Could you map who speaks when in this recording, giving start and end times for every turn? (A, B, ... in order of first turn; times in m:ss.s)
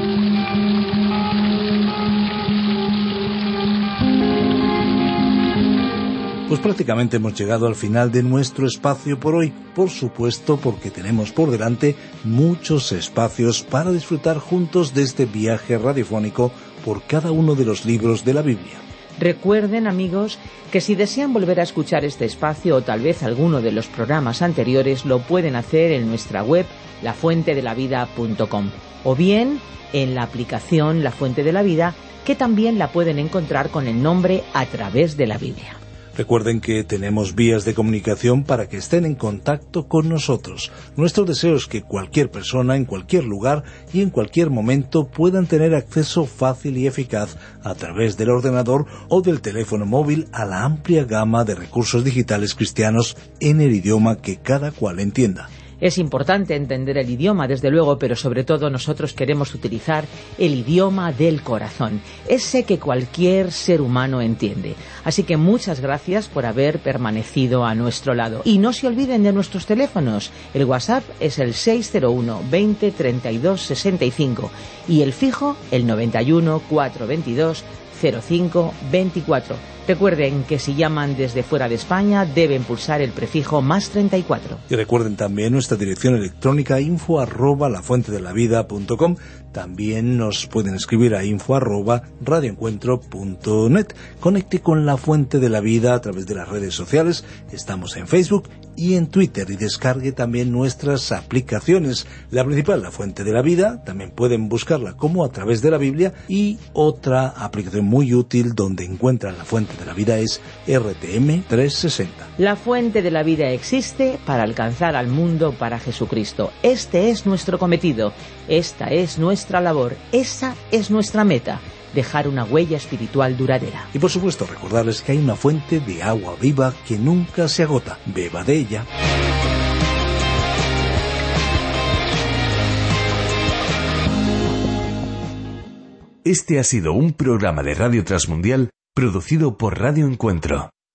0:06.5-0:18.8 A
0:19.2-0:35.8 B
0:36.1-0:55.5 A
0:55.8-1:24.6 B
1:24.7-1:52.3 A
1:52.4-2:03.9 B
2:03.9-2:08.9 A
2:16.2-2:20.7 C